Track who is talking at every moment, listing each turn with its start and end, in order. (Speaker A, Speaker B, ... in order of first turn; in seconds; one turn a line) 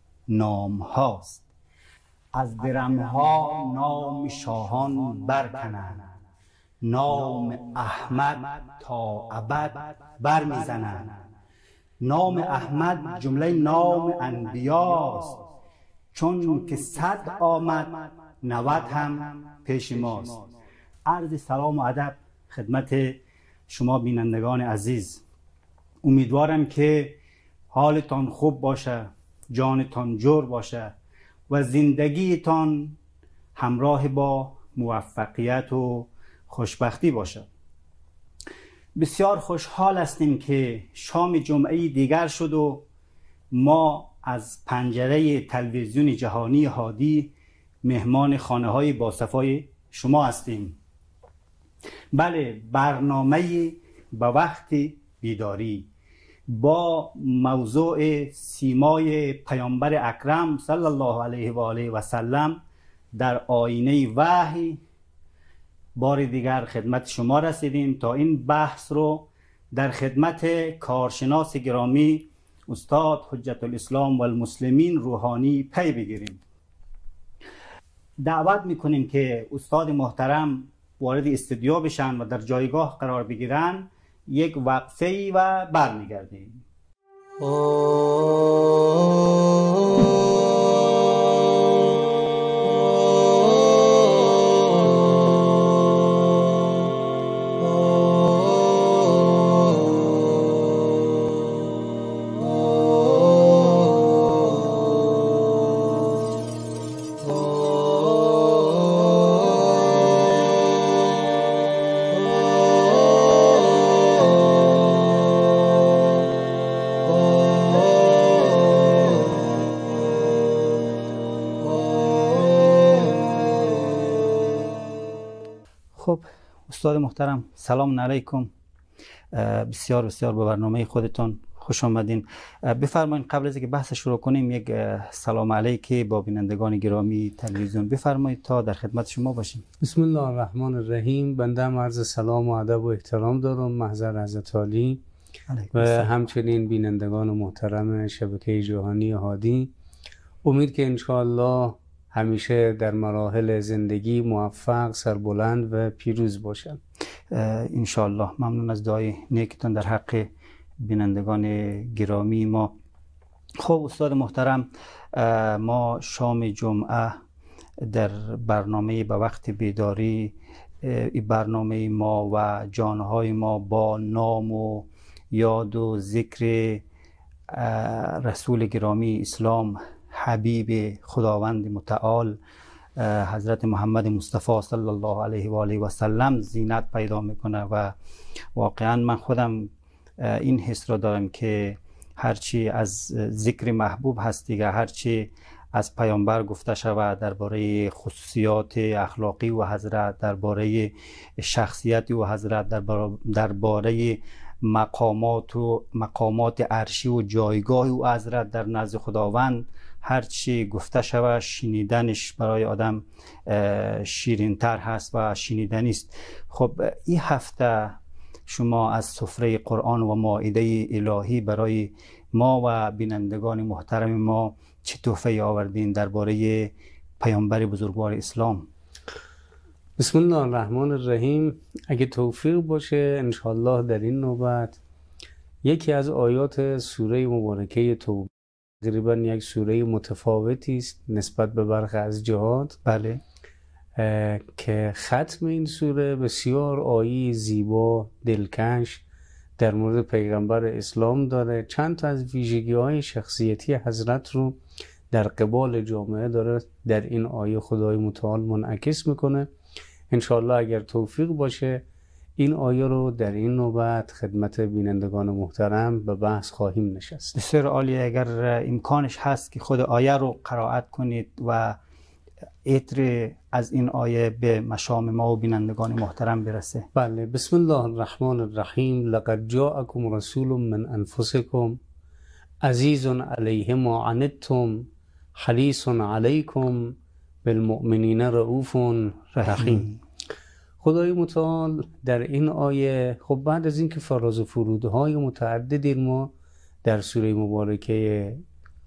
Speaker A: 0.3-1.4
Speaker A: 2.3-6.1
Speaker A: 6.8-11.2
Speaker A: 12.0-15.4
Speaker A: 16.1-20.5
Speaker A: 21.1-25.2
Speaker A: 26.0-27.2
Speaker A: 27.7-30.9
Speaker A: 31.5-33.0
Speaker A: 33.5-37.5
Speaker A: 39.0-42.9
Speaker A: 43.5-47.3
Speaker A: 47.8-50.8
Speaker A: 52.1-55.9
Speaker A: 56.5-62.6
Speaker A: 63.1-64.8
Speaker A: 66.0-76.4
Speaker A: 78.2-86.6
Speaker A: 125.9-128.5
Speaker A: 129.3-139.6
Speaker B: 139.8-145.0
Speaker A: 145.5-146.1
Speaker B: 145.7-149.7
Speaker B: 150.4-156.8
Speaker A: 157.3-160.3
Speaker A: 160.8-162.7
Speaker A: 163.6-167.2
Speaker A: 167.8-176.8
Speaker A: 177.5-182.4
Speaker A: 183.0-187.9
Speaker A: 188.5-228.7
Speaker B: 230.0-234.8
Speaker B: 235.6-242.8
Speaker A: 242.8-243.2
Speaker B: 244.0-249.0
Speaker B: 249.6-254.6
Speaker B: 255.1-259.5
Speaker B: 260.1-261.8
Speaker B: 262.4-267.3
Speaker A: 267.3-271.8
Speaker A: 272.6-276.9
Speaker B: 276.9-281.8
Speaker B: 282.6-289.9
Speaker A: 289.4-290.0
Speaker B: 290.8-296.3
Speaker B: 296.8-298.4